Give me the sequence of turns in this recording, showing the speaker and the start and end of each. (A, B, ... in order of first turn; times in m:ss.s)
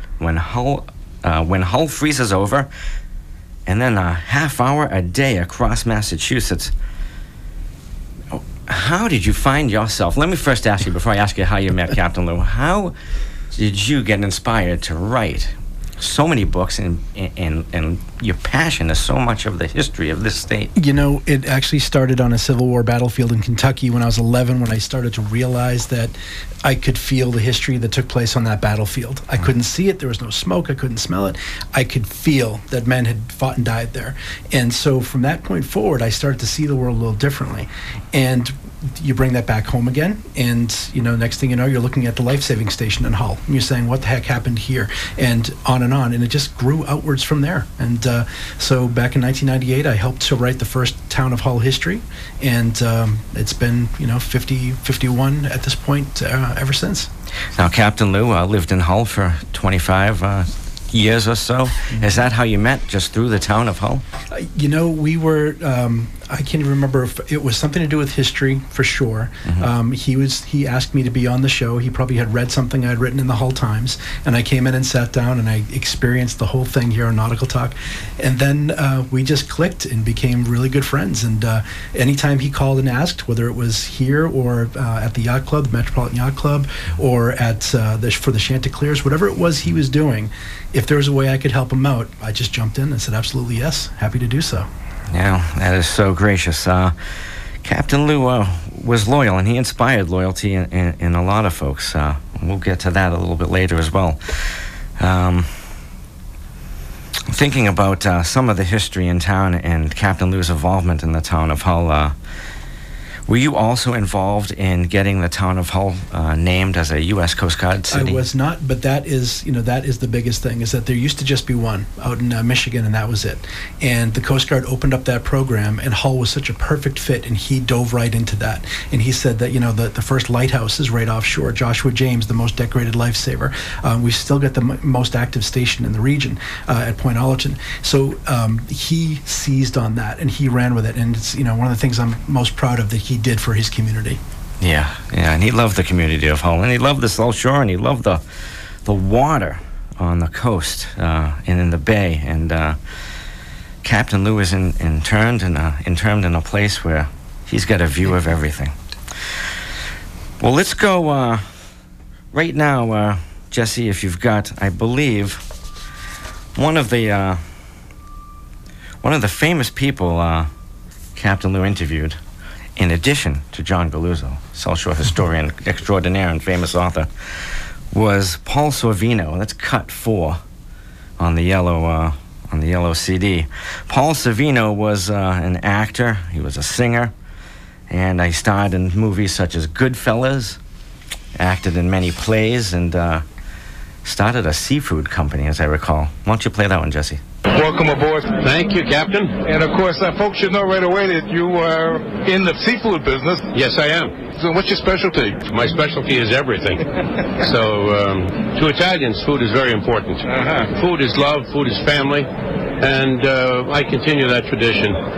0:00.2-0:02.7 A
0:03.7-0:06.7 A
0:08.3-0:12.9 A
0:13.5-0:20.7 A
0:20.8-0:57.1 B
0:57.6-1:04.0 A
1:02.0-1:02.2 B
1:04.3-1:34.7 B
1:35.1-1:36.9 A
1:37.6-1:44.4 A
1:45.0-1:45.5 A
1:47.3-1:52.2 A
1:53.3-1:58.2 A
1:57.9-2:24.2 B
2:24.6-2:28.2 A
2:28.8-2:32.8 A
2:33.8-2:38.7 A
2:40.4-2:41.4 A
2:42.3-2:45.4 A
2:46.6-2:47.4 A
2:49.0-2:50.5 A
2:51.2-2:52.2 A
2:52.8-2:57.1 A
2:57.9-3:00.4 A
3:01.2-3:07.1 A
3:07.9-3:10.6 A
3:11.4-3:13.2 A
3:14.0-3:17.2 A
3:17.5-3:18.4 C
3:18.4-3:19.4 D
3:19.4-3:23.5 C
3:23.5-3:24.2 D
3:24.3-3:25.4 C
3:25.4-3:26.8 D
3:27.4-3:32.3 D
3:32.8-3:35.0 D